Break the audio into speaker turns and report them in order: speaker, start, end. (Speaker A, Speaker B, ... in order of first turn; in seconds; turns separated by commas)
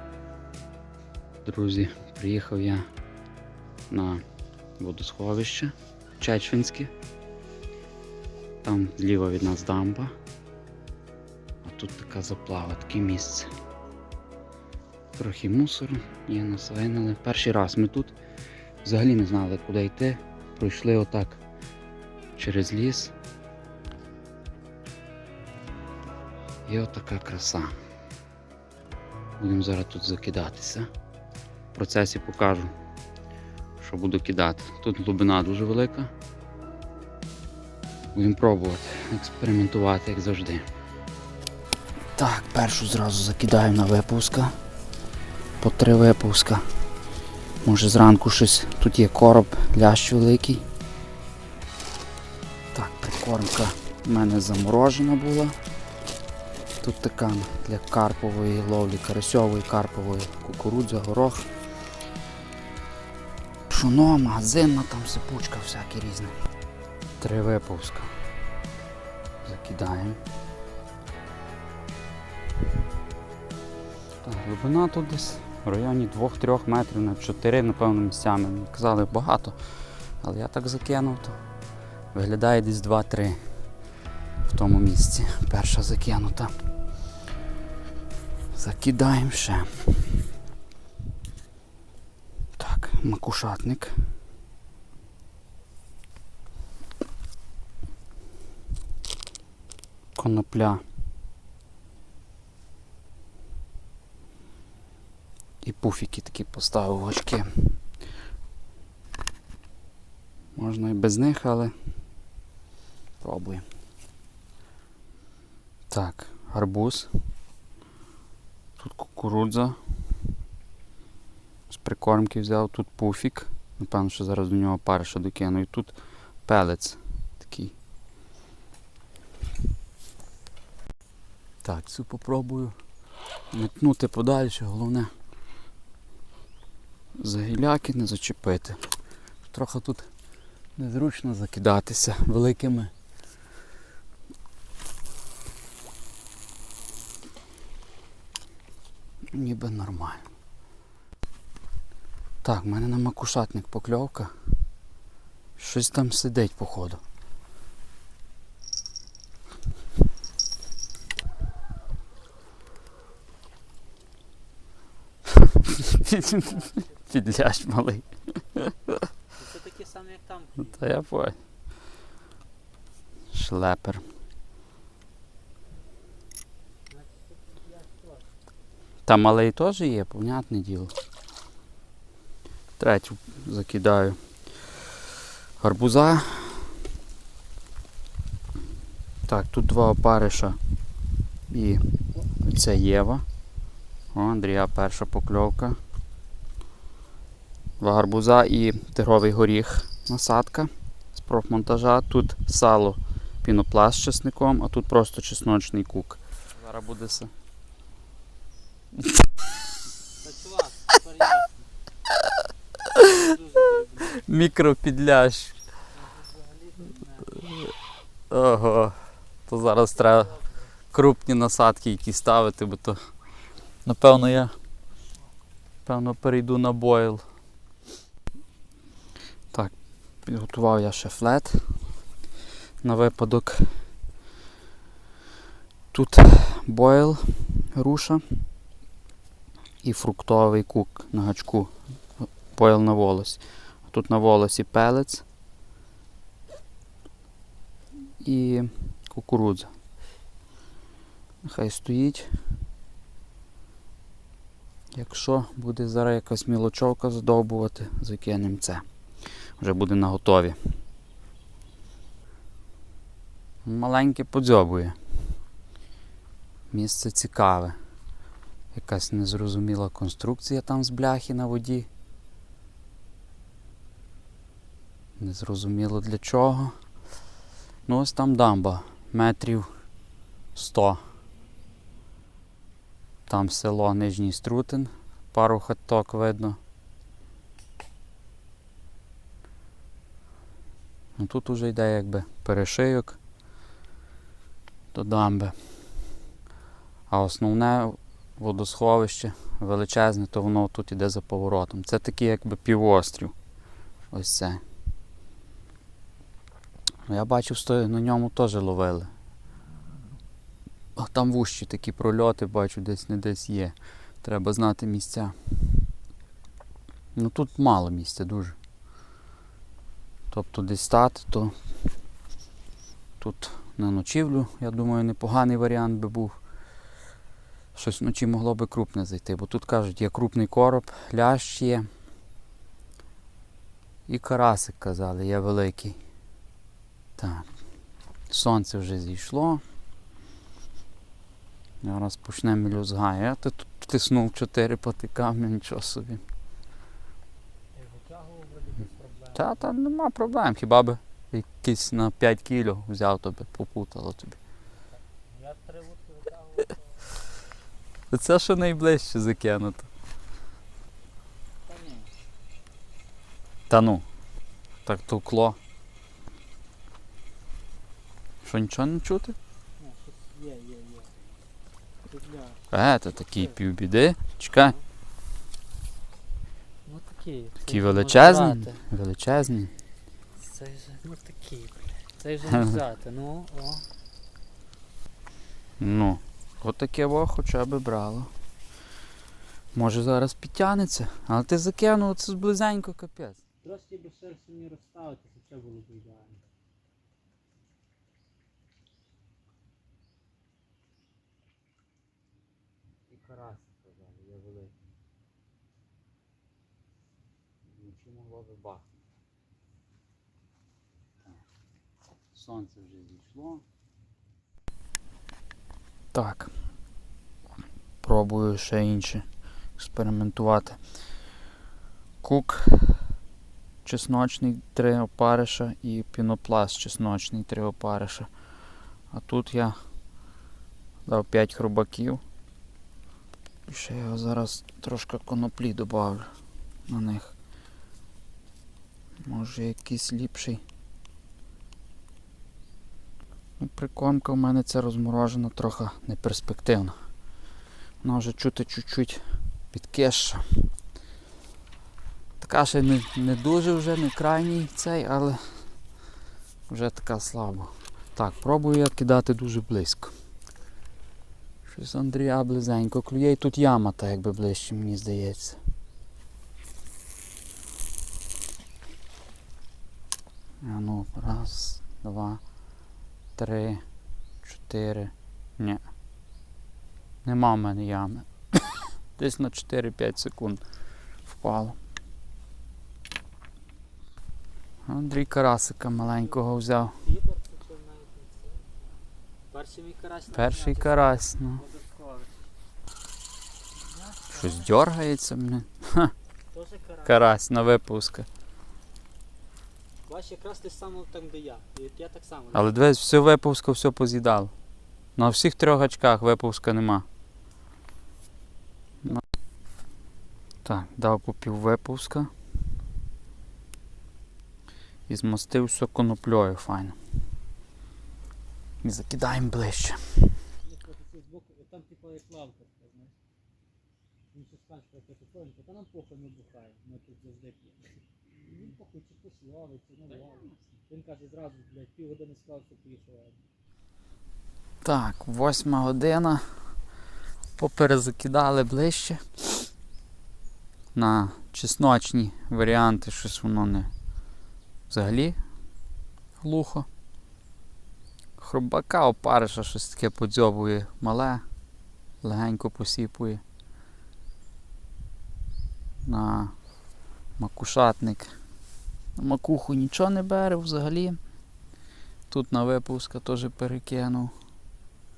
Speaker A: 1.4-2.8, Speaker A: 3.9-4.2, Speaker A: 4.8-6.9, Speaker A: 8.6-10.1, Speaker A: 11.6-13.5, Speaker A: 15.2-18.1, Speaker A: 18.8-21.4, Speaker A: 22.4-23.1, Speaker A: 26.7-27.7, Speaker A: 29.4-30.9, Speaker A: 31.7-32.7, Speaker A: 33.8-36.1, Speaker A: 38.1-40.6, Speaker A: 42.1-44.5, Speaker A: 45.6-46.6, Speaker A: 47.6-50.6, Speaker A: 52.7-55.5, Speaker A: 56.8-61.5, Speaker A: 63.7-66.3, Speaker A: 67.2-68.1, Speaker A: 69.4-70.2, Speaker A: 74.2-79.6, Speaker A: 80.2-81.4, Speaker A: 82.1-83.4, Speaker A: 84.4-86.5, Speaker A: 88.5-90.2, Speaker A: 92.6-93.9, Speaker A: 100.2-100.8, Speaker A: 105.6-107.7, Speaker A: 110.5-111.7, Speaker A: 113.2-113.6, Speaker A: 115.9-117.1, Speaker A: 118.8-119.8, Speaker A: 121.7-125.9, Speaker A: 126.5-127.7, Speaker A: 131.6-132.8, Speaker A: 133.5-135.1, Speaker A: 137.2-138.8, Speaker A: 139.5-140.1, Speaker A: 140.8-142.9, Speaker A: 149.3-150.2, Speaker A: 152.4-154.3, Speaker A: 155.6-157.0, Speaker A: 165.3-169.0, Speaker B: 166.4-166.9, Speaker B: 169.3-170.9, Speaker A: 170.7-171.4, Speaker A: 173.3-174.0, Speaker B: 176.9-178.3, Speaker A: 179.1-180.9, Speaker A: 182.8-184.2, Speaker A: 185.6-186.7, Speaker A: 189.3-190.6, Speaker A: 191.5-193.2, Speaker A: 194.1-195.8, Speaker A: 197.8-207.3, Speaker B: 210.2-211.7, Speaker A: 212.8-213.2, Speaker B: 213.0-214.2, Speaker A: 214.1-215.6, Speaker B: 215.9-217.5, Speaker A: 218.3-220.3, Speaker B: 219.9-220.6, Speaker A: 220.9-223.0, Speaker A: 223.8-224.5, Speaker A: 225.8-227.2, Speaker A: 230.2-231.7, Speaker A: 232.8-233.7, Speaker A: 235.9-238.2, Speaker A: 239.8-245.2, Speaker A: 248.2-249.7, Speaker A: 251.4-252.3, Speaker A: 254.9-258.8, Speaker A: 259.6-260.6, Speaker A: 263.6-264.9, Speaker A: 266.7-267.7, Speaker A: 268.7-271.9, Speaker A: 275.2-276.7, Speaker A: 277.9-279.7, Speaker A: 280.5-281.0, Speaker A: 283.3-286.6, Speaker A: 291.2-293.2, Speaker A: 294.9-295.6, Speaker A: 297.1-303.3, Speaker A: 304.1-304.6, Speaker A: 307.1-309.1, Speaker A: 310.9-315.8, Speaker A: 317.1-318.6, Speaker A: 320.3-321.6, Speaker A: 323.2-326.4, Speaker A: 327.7-331.9, Speaker A: 334.1-336.0, Speaker A: 337.2-337.5, Speaker A: 338.3-339.6, Speaker A: 341.8-346.2, Speaker B: 347.7-349.6, Speaker A: 349.3-354.4, Speaker B: 355.3-357.1, Speaker A: 358.1-359.9, Speaker B: 361.7-362.1, Speaker A: 363.7-364.0, Speaker A: 364.9-365.6, Speaker A: 368.4-369.4, Speaker B: 369.8-371.1, Speaker B: 372.0-372.7, Speaker A: 372.7-374.8, Speaker B: 373.3-373.6, Speaker B: 376.8-378.8, Speaker A: 377.6-379.7, Speaker B: 380.4-383.9, Speaker A: 382.5-382.8, Speaker A: 385.8-388.3, Speaker A: 389.7-393.4, Speaker B: 393.6-396.4, Speaker A: 403.1-404.7, Speaker A: 407.7-408.9, Speaker A: 412.3-413.6, Speaker A: 416.1-416.5, Speaker A: 418.0-419.2, Speaker A: 419.8-420.8, Speaker A: 422.2-423.0, Speaker A: 423.8-428.3, Speaker A: 429.1-429.8, Speaker A: 431.1-432.2, Speaker A: 433.7-436.3, Speaker A: 436.9-437.3, Speaker A: 439.2-440.6, Speaker A: 443.6-446.9, Speaker A: 448.0-450.4, Speaker A: 452.4-455.6, Speaker A: 456.7-460.1, Speaker A: 461.6-465.6, Speaker A: 470.6-472.4, Speaker A: 473.4-473.8, Speaker A: 474.4-475.8, Speaker A: 477.2-480.6, Speaker A: 481.3-481.8, Speaker A: 484.9-487.0, Speaker B: 486.0-488.7, Speaker B: 489.5-492.4, Speaker A: 490.3-491.6, Speaker B: 493.8-494.7, Speaker A: 494.3-496.1, Speaker B: 496.5-497.4, Speaker A: 497.0-498.3, Speaker B: 500.0-502.8, Speaker A: 502.5-504.5, Speaker A: 505.1-507.0, Speaker A: 510.6-512.3, Speaker A: 515.1-516.9, Speaker A: 518.8-520.4, Speaker B: 520.6-523.1, Speaker B: 524.3-533.4, Speaker A: 534.8-536.4, Speaker A: 537.6-539.2, Speaker A: 540.9-543.9, Speaker A: 544.9-545.4, Speaker A: 546.4-546.9, Speaker A: 548.4-551.4, Speaker A: 552.2-553.4, Speaker A: 556.0-556.5, Speaker A: 557.4-558.3, Speaker A: 559.1-561.2, Speaker A: 562.3-564.3